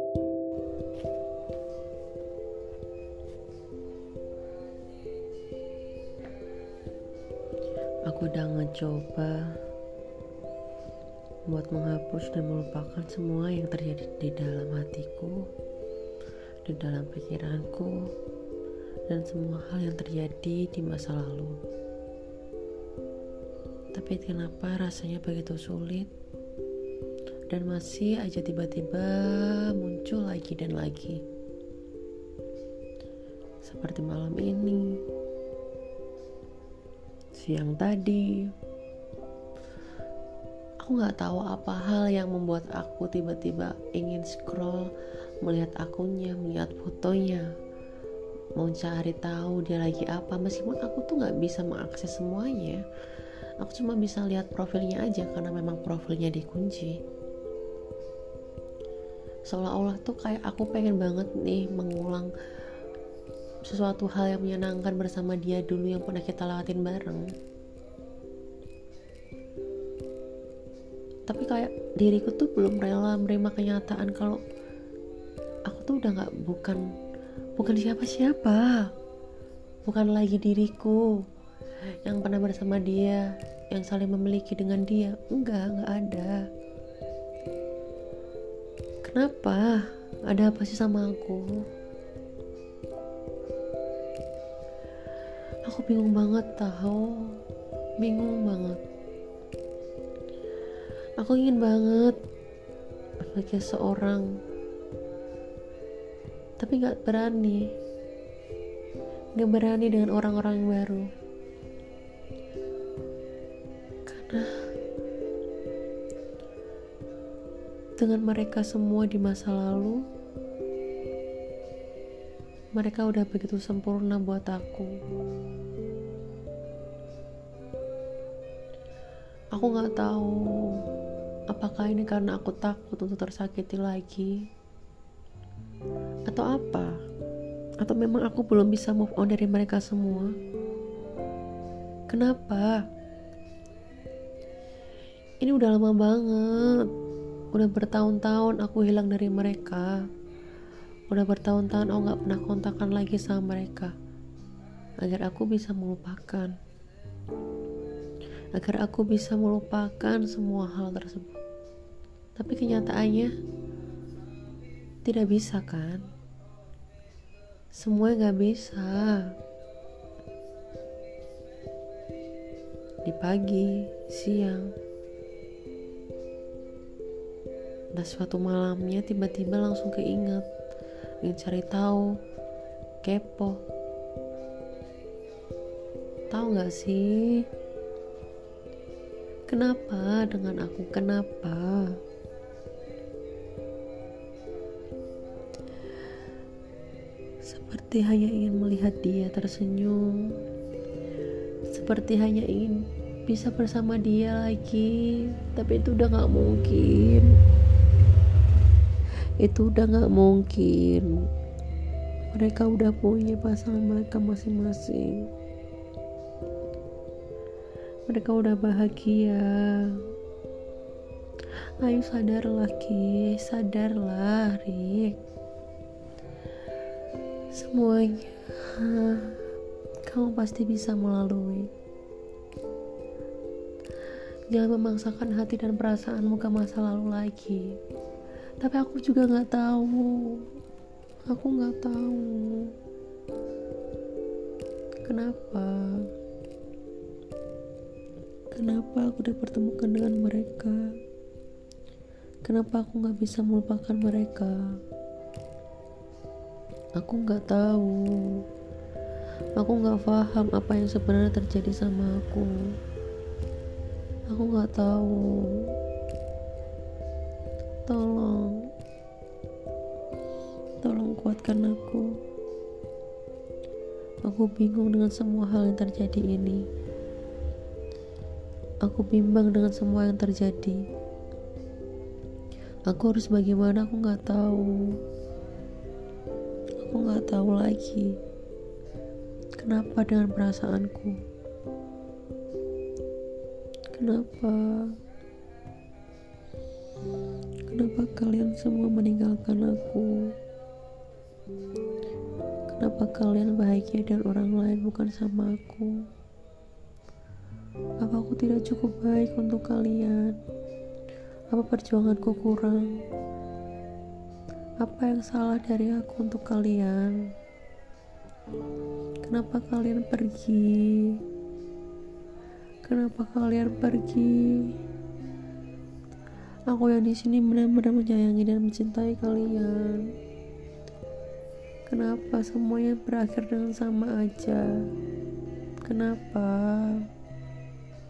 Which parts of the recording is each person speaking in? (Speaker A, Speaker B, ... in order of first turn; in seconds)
Speaker A: 8.1-9.5, 11.5-15.4, 16.7-18.1, 19.1-21.6, 23.9-26.1, 27.5-31.2, 33.6-34.9, 37.4-38.5, 40.8-44.9, 45.4-47.5, 48.6-52.8, 53.6-57.0, 59.5-62.3, 63.7-67.3, 71.3-74.4, 75.7-76.8, 77.6-78.9, 79.8-81.1, 82.0-86.4, 89.0-91.6, 95.7-97.3, 98.0-98.8, 101.2-102.2, 103.2-104.2, 106.6-107.7, 109.4-111.1, 114.1-114.6, 118.0-120.0, 122.8-124.9, 129.6-130.4, 131.5-134.4, 136.3-136.9, 137.8-140.3, 142.1-142.8, 145.4-146.9, 147.5-150.0, 151.1-153.9, 155.0-156.5, 158.5-161.4, 162.4-163.3, 165.1-166.1, 167.8-169.3, 173.1-174.7, 178.0-180.5, 181.2-182.1, 183.0-183.6, 186.3-187.4, 189.5-191.9, 197.4-200.4, 201.7-207.3, 209.4-211.1, 212.3-215.3, 218.1-220.0, 221.8-225.1, 227.5-229.4, 230.1-231.7, 234.5-237.7, 238.6-240.4, 241.3-242.7, 245.1-246.1, 248.5-250.9, 252.4-254.7, 257.0-258.4, 259.6-262.6, 264.3-265.7, 267.9-268.6, 270.8-272.1, 274.2-276.6, 278.9-280.8, 282.9-284.7, 286.8-288.2, 289.6-291.2, 293.9-294.9, 297.7-300.3, 302.7-306.1, 308.0-310.4, 311.5-313.0, 314.8-317.2, 319.2-321.2, 322.8-324.7, 326.7-330.1, 331.9-334.7, 335.9-337.0